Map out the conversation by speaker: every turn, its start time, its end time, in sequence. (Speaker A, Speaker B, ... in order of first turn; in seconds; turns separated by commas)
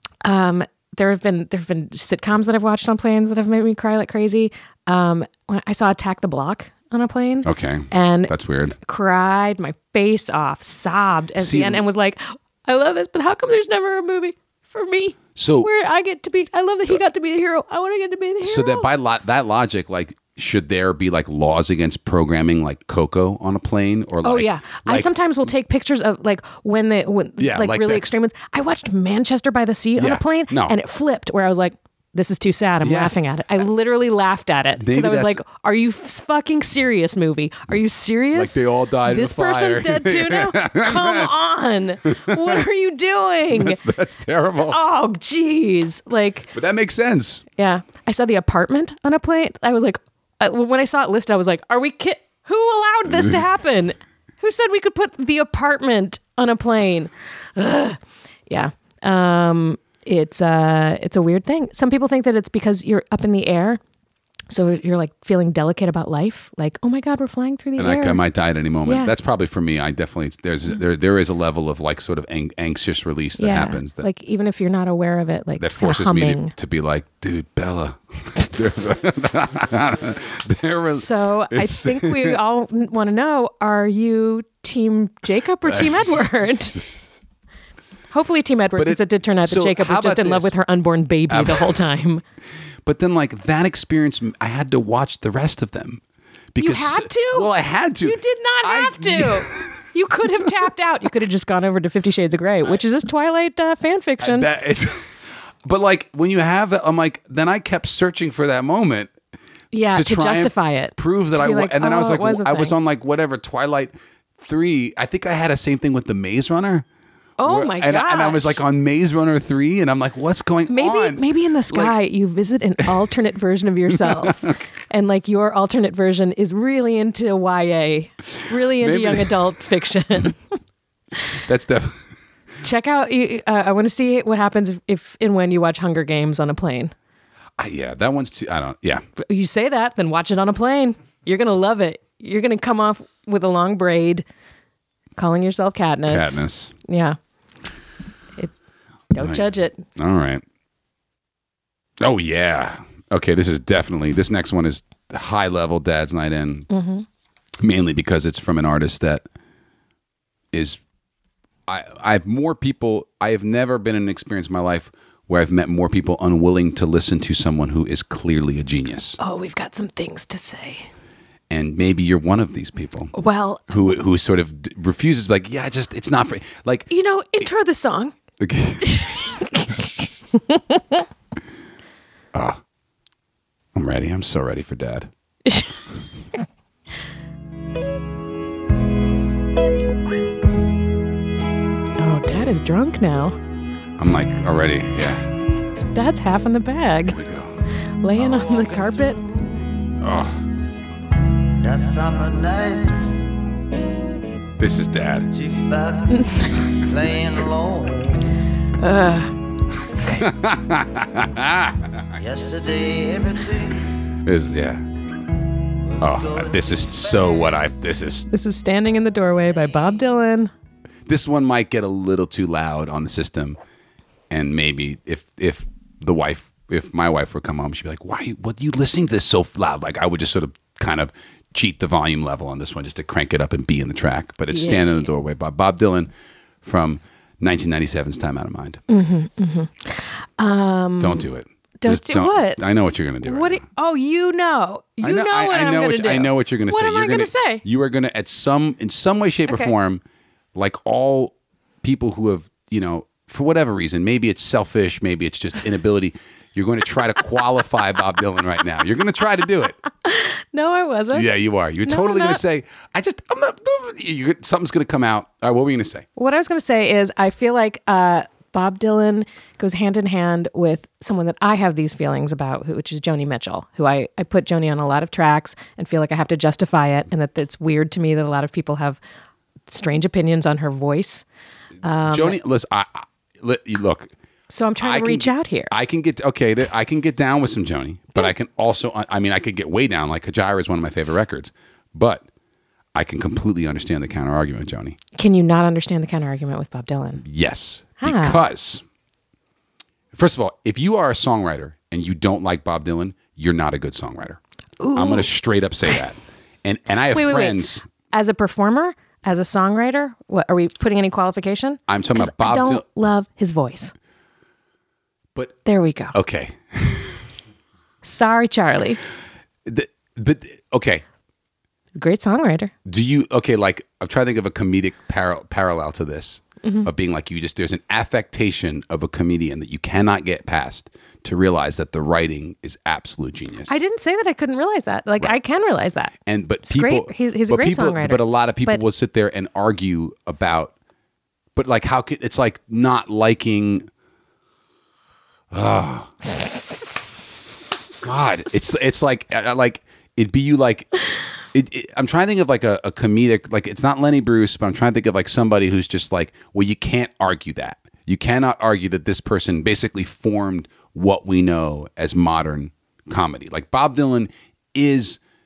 Speaker A: 0.2-18.9, Speaker B: 7.4-8.8, Speaker B: 11.4-11.8, Speaker B: 15.3-15.7, Speaker B: 18.4-25.1, Speaker A: 24.2-43.8, Speaker B: 27.4-28.1, Speaker B: 30.0-30.8, Speaker B: 32.8-33.1, Speaker B: 34.8-35.4, Speaker B: 38.3-41.3, Speaker B: 42.1-42.6, Speaker B: 43.5-44.8, Speaker A: 44.7-46.5, Speaker B: 46.5-47.4, Speaker A: 47.6-63.8, Speaker A: 64.5-68.2, Speaker B: 67.8-74.0, Speaker A: 68.8-69.1, Speaker A: 73.4-76.5, Speaker B: 75.6-82.4, Speaker A: 80.9-86.8, Speaker B: 85.6-86.0, Speaker A: 88.1-92.2, Speaker B: 88.8-90.5, Speaker B: 91.3-91.7, Speaker B: 92.8-96.0, Speaker B: 96.5-99.8, Speaker A: 96.6-97.5, Speaker A: 98.0-104.5, Speaker B: 104.2-105.1, Speaker B: 105.6-109.1, Speaker A: 109.7-112.7, Speaker B: 109.9-116.8, Speaker A: 117.4-118.6, Speaker B: 117.4-121.9, Speaker A: 120.7-130.4, Speaker B: 123.9-124.5, Speaker B: 128.8-129.4, Speaker B: 131.4-132.0, Speaker A: 132.6-136.9, Speaker B: 137.6-139.0, Speaker A: 139.2-144.2, Speaker A: 145.2-147.2, Speaker B: 146.1-146.7, Speaker A: 149.1-149.8, Speaker B: 149.2-150.4, Speaker B: 152.0-156.7, Speaker A: 156.7-157.1, Speaker B: 157.6-159.2, Speaker B: 160.5-160.8, Speaker B: 161.7-169.2, Speaker A: 169.2-170.9, Speaker B: 171.5-173.1, Speaker A: 173.1-173.9, Speaker B: 173.7-176.9, Speaker A: 176.9-178.1, Speaker B: 178.4-179.9, Speaker A: 178.8-181.0, Speaker B: 182.3-182.6, Speaker B: 183.7-185.1, Speaker A: 185.4-185.7, Speaker A: 192.0-193.3, Speaker B: 194.0-195.2, Speaker A: 195.9-197.2, Speaker B: 197.1-197.5, Speaker A: 198.0-199.2, Speaker B: 198.2-198.6, Speaker C: 198.7-199.5, Speaker B: 200.0-200.4, Speaker C: 201.6-203.2, Speaker B: 204.6-205.3, Speaker C: 205.3-208.3, Speaker A: 208.8-209.3, Speaker B: 210.0-212.1, Speaker C: 212.2-213.8, Speaker B: 214.2-214.8, Speaker C: 215.8-217.3, Speaker B: 216.0-218.3, Speaker A: 218.3-220.5, Speaker B: 221.1-223.6, Speaker B: 224.3-236.1, Speaker A: 234.5-235.1, Speaker B: 236.6-238.8, Speaker A: 238.9-241.2, Speaker B: 241.0-243.6, Speaker A: 241.8-242.6, Speaker A: 243.2-247.6, Speaker B: 245.0-250.0, Speaker B: 250.5-259.8, Speaker A: 260.0-261.2, Speaker B: 261.1-266.0, Speaker A: 261.8-262.4, Speaker A: 266.1-279.0, Speaker A: 279.7-281.2, Speaker A: 281.8-282.4, Speaker B: 282.1-284.1, Speaker A: 284.5-285.7, Speaker B: 284.8-292.3, Speaker B: 292.9-295.0, Speaker A: 295.2-297.2, Speaker B: 297.2-298.8, Speaker A: 298.0-298.4, Speaker B: 300.1-304.4, Speaker A: 304.8-305.3, Speaker B: 304.9-307.9, Speaker A: 307.1-313.9, Speaker B: 311.9-312.8, Speaker A: 315.6-316.1, Speaker B: 316.1-317.2, Speaker A: 318.0-319.0, Speaker B: 319.6-321.0, Speaker A: 321.9-322.7, Speaker B: 322.9-333.8, Speaker A: 326.6-326.9, Speaker A: 333.7-336.1, Speaker B: 336.2-340.7, Speaker A: 336.6-338.8, Speaker B: 341.6-343.9, Speaker B: 345.5-346.1, Speaker A: 346.4-347.0, Speaker B: 348.0-350.9, Speaker B: 351.5-365.2